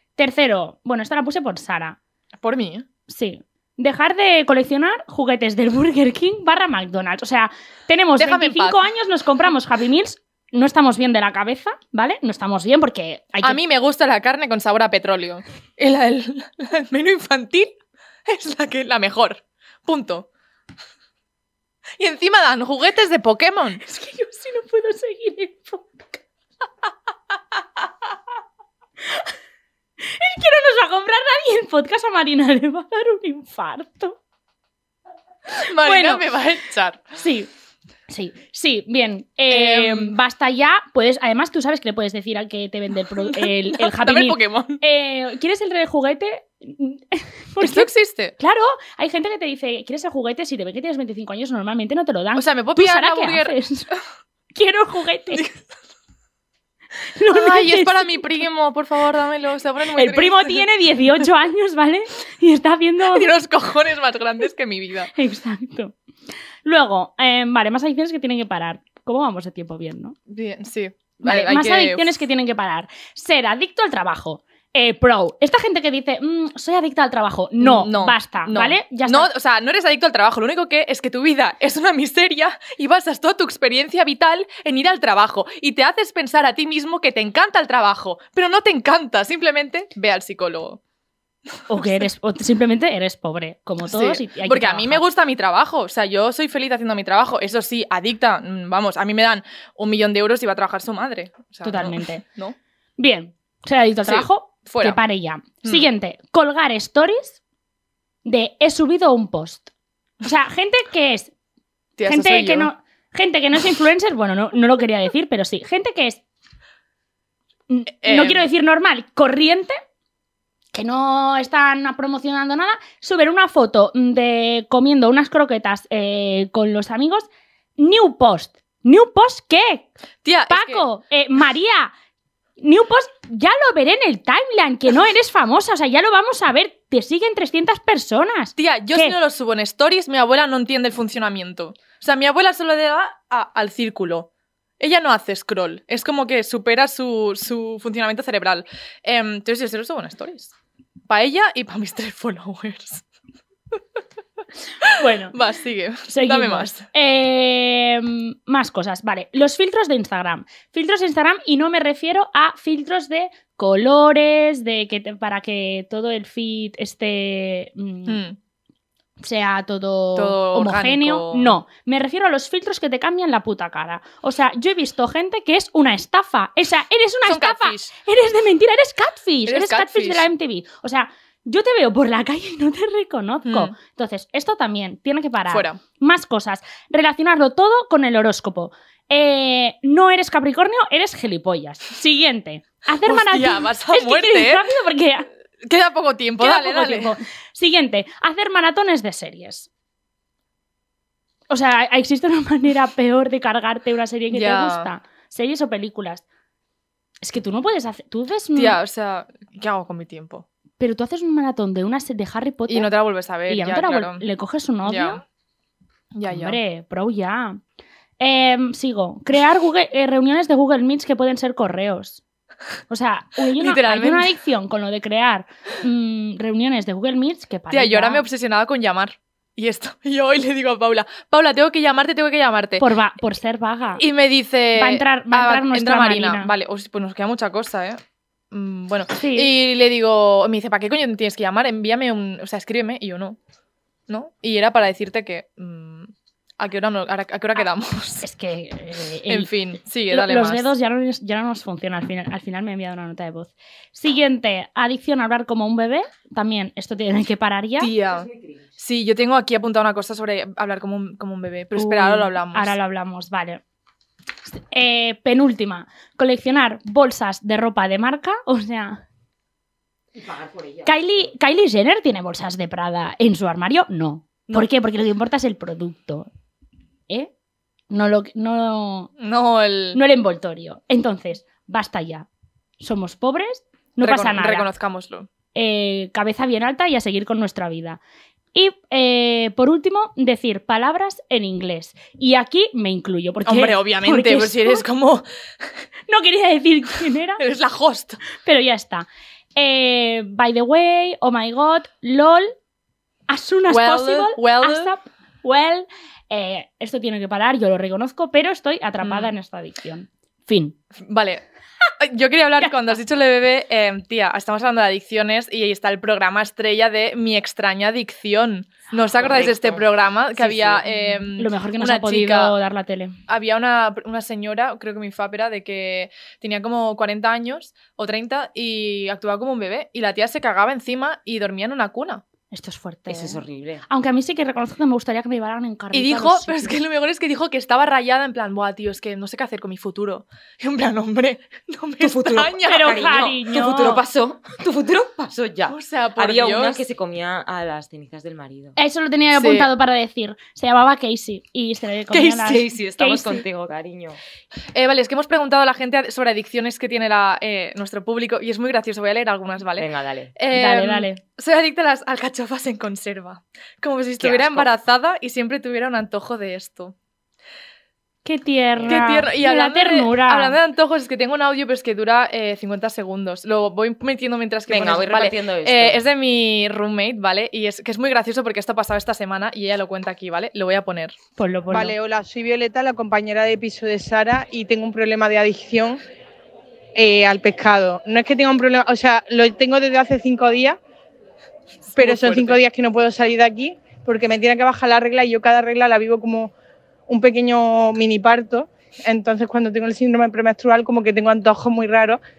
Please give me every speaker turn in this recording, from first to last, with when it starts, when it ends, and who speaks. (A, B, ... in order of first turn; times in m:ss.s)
0:00.2-0:02.0 A
0:02.4-0:02.8 B
0:03.1-0:13.6 A
0:08.2-0:08.8 B
0:13.4-0:20.3 B
0:22.0-0:23.8 B
0:23.8-0:26.2 A
0:30.0-0:34.2 A
0:35.5-0:36.2 A
0:35.6-0:37.0 B
0:37.2-0:37.5 A
0:38.1-0:53.9 A
0:39.5-0:40.2 B
0:43.2-0:44.8 B
0:47.6-0:48.3 B
0:52.4-0:53.6 B
0:54.5-0:55.4 A
0:55.3-0:55.7 B
0:57.1-0:58.2 A
0:57.3-1:00.6 B
0:59.9-1:03.3 A
1:03.1-1:05.1 B
1:05.1-1:05.9 A
1:06.6-1:10.2 A
1:10.3-1:12.2 B
1:11.2-1:19.3 A
1:17.6-1:30.8 B
1:31.7-1:35.0 A
1:33.8-1:42.6 B
1:41.6-1:42.2 A
1:43.0-1:47.4 A
1:44.0-1:45.0 B
1:48.2-1:49.7 A
1:50.2-1:51.3 A
1:52.0-1:52.7 B
1:52.0-1:56.2 A
1:57.7-1:59.8 A
1:58.0-1:58.4 B
2:00.7-2:07.3 A
2:07.8-2:09.9 A
2:10.2-2:10.8 B
2:10.5-2:11.9 A
2:12.6-2:19.2 A
2:18.6-2:24.3 B
2:24.8-2:30.5 B
2:31.1-2:33.0 B
2:34.8-2:36.9 B
2:34.9-2:35.4 A
2:36.1-2:48.2 A
2:48.1-2:48.4 B
2:49.2-3:15.3 A
2:50.2-2:51.6 B
2:57.2-2:57.9 B
2:59.4-3:00.3 B
3:03.4-3:03.7 B
3:05.5-3:05.8 B
3:13.0-3:14.6 B
3:15.6-3:17.1 B
3:16.4-3:19.7 A
3:21.5-3:26.2 A
3:24.3-3:24.9 B
3:27.2-3:28.8 A
3:28.5-3:30.4 B
3:30.8-3:32.9 A
3:32.7-3:34.2 B
3:33.5-3:35.2 A
3:34.8-3:35.2 B
3:36.1-3:36.6 B
3:36.3-3:37.6 A
3:38.2-3:42.2 A
3:42.9-3:48.2 A
3:43.6-3:44.3 B
3:47.7-3:52.8 B
3:52.8-3:54.0 A
3:54.0-3:58.0 B
3:54.7-3:56.5 A
3:58.5-4:03.4 B
3:59.1-3:59.5 A
4:04.1-4:08.2 B
4:08.2-4:09.5 A
4:09.3-4:10.7 B
4:10.1-4:17.9 A
4:17.8-4:22.8 B
4:18.1-4:18.6 C
4:21.7-4:23.6 A
4:24.5-4:29.0 A
4:30.1-4:31.0 C
4:30.8-4:36.3 A
4:37.9-4:39.1 A
4:39.2-4:40.0 B
4:39.9-4:42.3 A
4:42.8-4:44.7 A
4:44.0-4:45.3 B
4:45.5-4:48.0 A
4:48.5-4:54.8 A
4:53.4-4:55.2 B
4:56.1-4:57.4 A
4:57.4-4:58.2 B
4:58.4-5:02.5 A
5:03.3-5:10.8 A
5:03.7-5:04.9 B
5:09.0-5:09.3 B
5:11.0-5:11.4 B
5:12.0-5:22.5 B
5:19.2-5:19.8 C
5:21.3-5:23.2 A
5:23.3-5:32.2 B
5:32.5-5:36.8 A
5:33.1-5:33.8 C
5:35.9-5:43.3 B
5:42.0-5:48.8 C
5:42.6-5:44.0 A
5:45.7-5:46.8 B
5:48.8-5:53.4 A
5:49.3-5:49.7 B
5:52.1-5:54.2 C
5:54.7-6:06.9 B
5:59.8-6:00.3 C
6:00.5-6:01.2 A
6:04.2-6:04.7 C
6:08.2-6:10.6 A
6:08.8-6:09.2 C
6:08.9-6:21.2 B
6:14.7-6:16.0 C
6:21.4-6:22.0 A
6:21.7-6:26.0 D
6:26.9-6:30.8 D
6:31.9-6:32.6 B
6:32.0-6:36.5 D
6:37.1-6:42.2 D